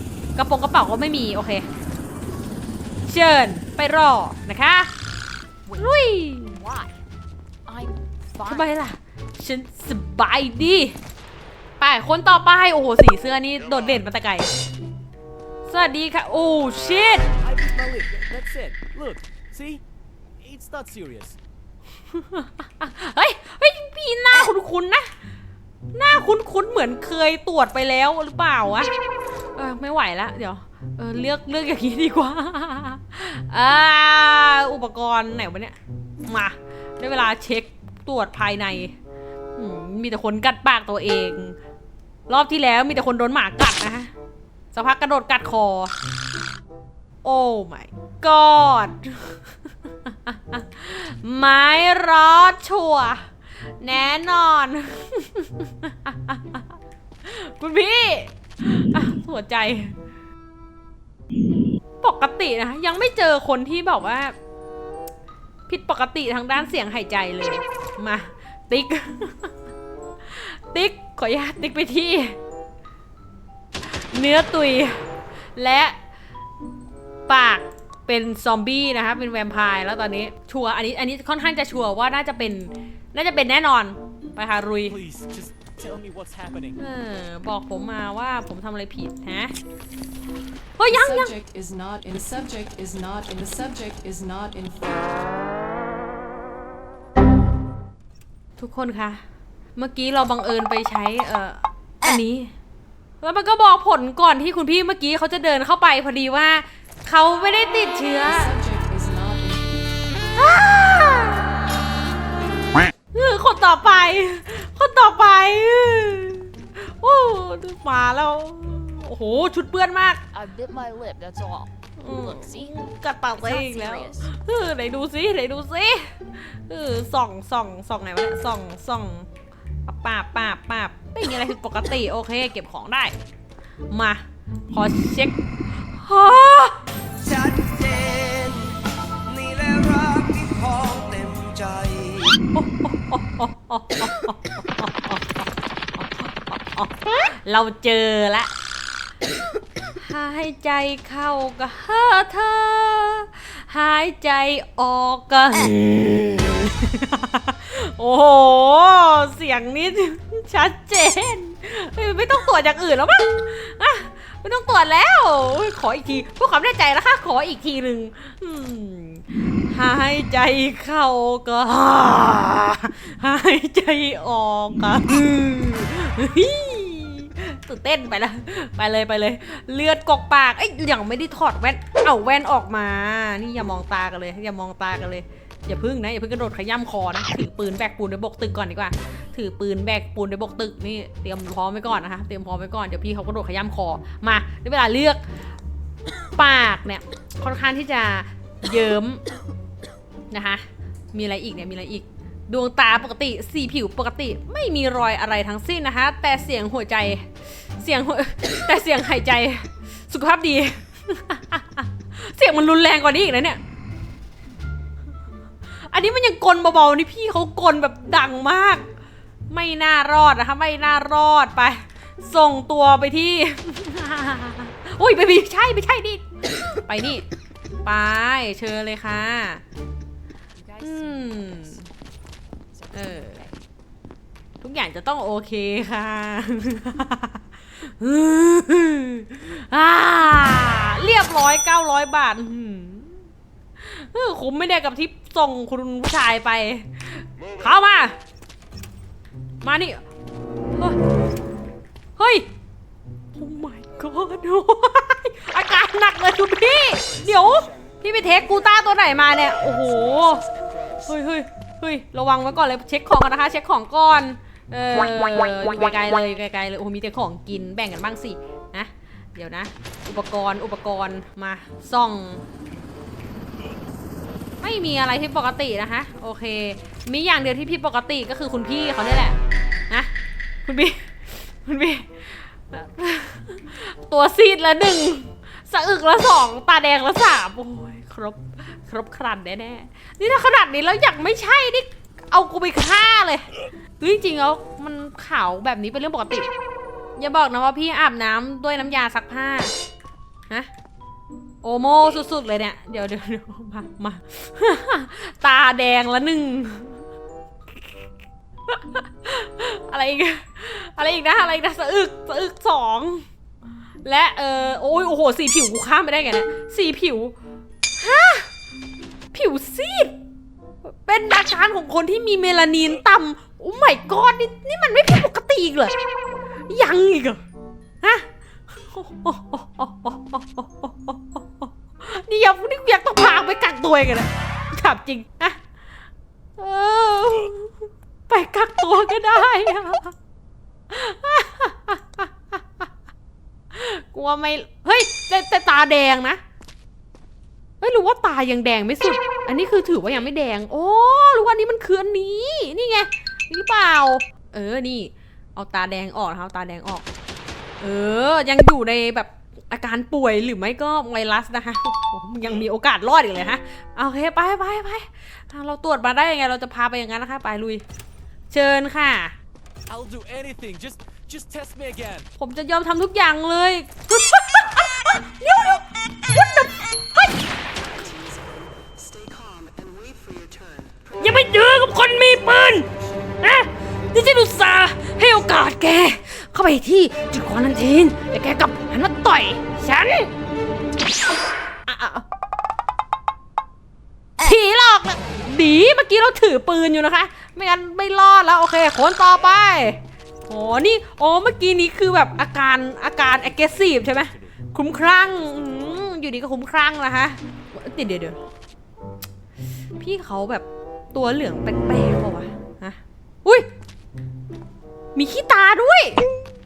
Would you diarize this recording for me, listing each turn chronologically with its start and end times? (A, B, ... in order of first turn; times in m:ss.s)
0:00.4-0:01.7 A
0:03.1-0:04.9 A
0:05.6-0:07.0 B
0:05.8-0:06.6 A
0:07.6-0:08.7 B
0:08.4-0:11.0 A
0:11.8-0:14.5 A
0:15.6-0:17.3 A
0:17.4-0:19.8 C
0:20.4-0:21.4 C
0:22.1-0:25.1 A
0:25.9-0:28.9 A
0:29.6-0:38.9 A
0:39.6-0:41.6 A
0:42.3-0:44.1 A
0:44.7-0:45.9 A
0:47.2-0:56.7 A
0:57.2-0:59.9 A
1:02.0-1:04.3 A
1:05.7-1:09.5 A
1:10.2-1:12.4 A
1:13.8-1:15.0 A
1:15.6-1:16.0 A
1:17.3-1:25.0 A
1:24.8-1:26.8 C
1:26.8-1:29.5 A
1:30.8-1:31.4 A
1:30.9-1:35.3 D
1:38.6-1:39.2 A
1:39.8-1:42.5 A
1:43.2-1:48.6 A
1:48.3-1:49.6 D
1:50.3-1:51.7 A
1:53.1-2:00.2 A
2:00.3-2:02.8 B
2:02.0-2:09.3 A
2:03.4-2:04.3 B
2:09.8-2:13.1 A
2:13.9-2:16.8 A
2:17.2-2:22.3 E
2:22.5-2:25.4 A
2:26.0-2:28.5 A
2:29.9-3:15.2 A
3:16.4-3:19.2 A
3:20.3-3:33.6 A
3:35.8-3:38.9 A
3:39.5-3:47.3 A
3:47.8-3:49.6 A
3:50.6-3:51.9 B
3:50.8-3:51.9 A
3:52.7-3:53.6 B
3:52.9-3:53.4 A
3:54.6-4:03.2 A
4:03.8-4:08.2 A
4:09.6-4:10.0 A
4:12.2-4:12.4 A
4:13.3-4:20.4 A
4:17.0-4:17.9 F
4:19.7-4:21.1 F
4:21.1-4:32.4 A
4:34.6-4:39.4 A
4:40.6-4:56.5 A
4:57.2-4:59.7 A
5:01.6-5:07.0 A
5:08.7-5:13.2 A
5:14.0-5:17.3 A
5:18.0-5:18.5 A
5:19.3-5:20.2 A
5:20.8-5:25.9 A
5:26.7-5:27.4 A
5:28.0-5:35.6 A
5:36.6-5:40.1 A
5:40.9-5:42.9 A
5:43.7-5:46.4 A
5:47.8-5:57.0 A
5:57.8-6:07.8 A
6:08.5-6:09.4 A
6:09.9-6:12.3 C
6:12.4-6:17.3 A
6:17.8-6:21.2 F
6:21.2-6:22.9 A
6:23.4-6:30.3 A
6:31.9-6:32.2 A
6:34.4-6:48.4 A
6:43.3-6:44.7 C
6:50.0-6:53.7 A
6:55.1-6:56.3 A